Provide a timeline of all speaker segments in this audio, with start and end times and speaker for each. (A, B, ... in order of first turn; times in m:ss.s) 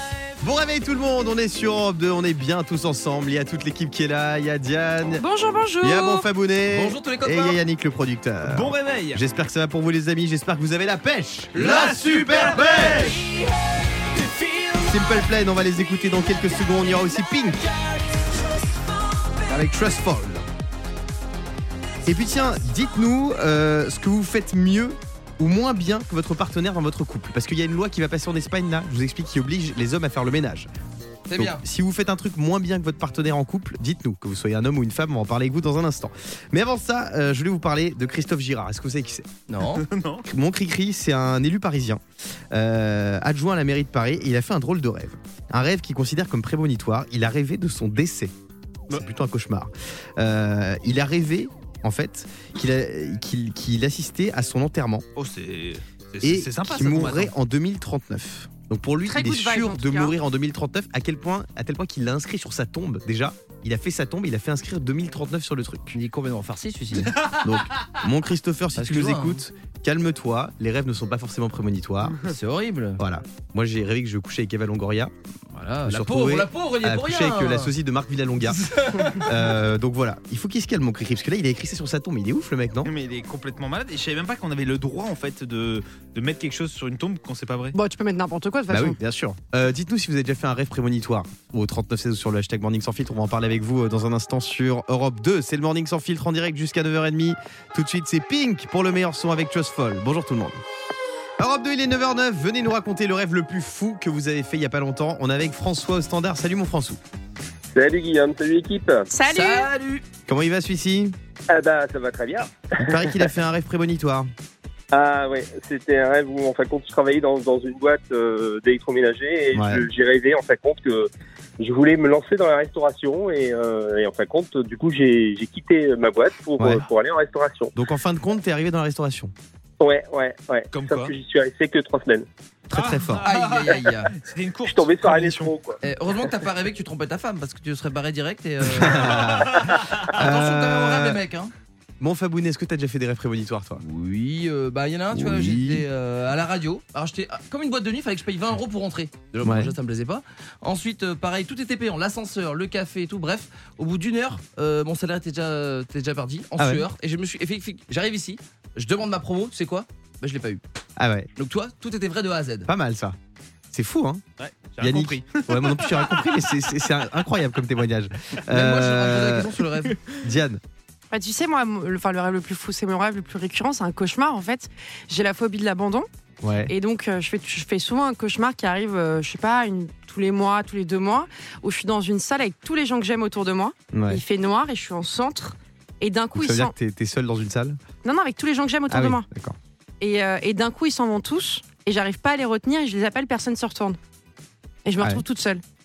0:00.4-0:05.2 A
0:05.2-0:06.3 B
0:05.8-0:13.2 A
0:06.7-0:07.6 C
0:08.4-0:09.2 D
0:11.6-0:13.0 C
0:11.6-0:13.2 D
0:14.8-0:17.7 A
0:19.5-0:20.4 A
0:22.0-0:30.7 A
0:31.3-0:31.6 C
0:31.4-0:39.3 A
0:39.5-0:39.8 C
0:39.8-0:40.2 D
0:40.2-0:42.0 A
0:42.5-0:48.3 A
0:48.9-0:55.0 A
0:55.2-0:57.3 D
0:56.2-1:06.0 A
0:59.0-1:00.1 B
1:05.9-1:07.2 C
1:07.4-1:12.3 A
1:08.8-1:09.4 C
1:12.2-1:13.0 C
1:13.0-1:15.1 A
1:15.5-1:17.7 C
1:15.8-1:22.9 A
1:18.6-1:19.2 C
1:22.8-1:27.8 D
1:27.7-1:29.0 B
1:28.7-1:40.6 A
1:41.4-1:47.0 A
1:47.7-1:49.0 E
1:49.1-1:49.7 B
1:49.3-1:50.0 C
1:50.3-1:51.2 A
1:51.5-1:53.2 E
1:52.8-1:54.3 A
1:54.9-2:07.7 E
1:59.5-1:59.9 A
2:06.6-2:06.8 A
2:07.7-2:09.3 A
2:09.8-2:12.3 E
2:10.7-2:11.1 D
2:12.7-2:13.2 A
2:12.7-2:15.6 D
2:13.2-2:14.1 C
2:14.7-2:15.8 E
2:15.8-2:21.5 C
2:18.8-2:21.2 A
2:22.0-2:23.8 A
2:23.8-2:40.6 C
2:25.1-2:25.8 A
2:29.4-2:29.7 A
2:36.6-2:36.9 A
2:41.0-2:41.3 A
2:41.4-2:42.7 C
2:42.7-2:43.2 A
2:43.7-2:44.2 A
2:44.4-2:46.2 D
2:44.8-2:49.5 A
2:48.5-2:50.0 C
2:50.2-2:50.6 A
2:51.1-2:56.1 B
2:56.4-2:56.7 A
2:56.6-3:06.7 B
3:03.9-3:04.2 A
3:06.3-3:07.8 A
3:08.0-3:09.2 B
3:08.9-3:09.6 A
3:10.0-3:14.0 B
3:14.8-3:15.6 B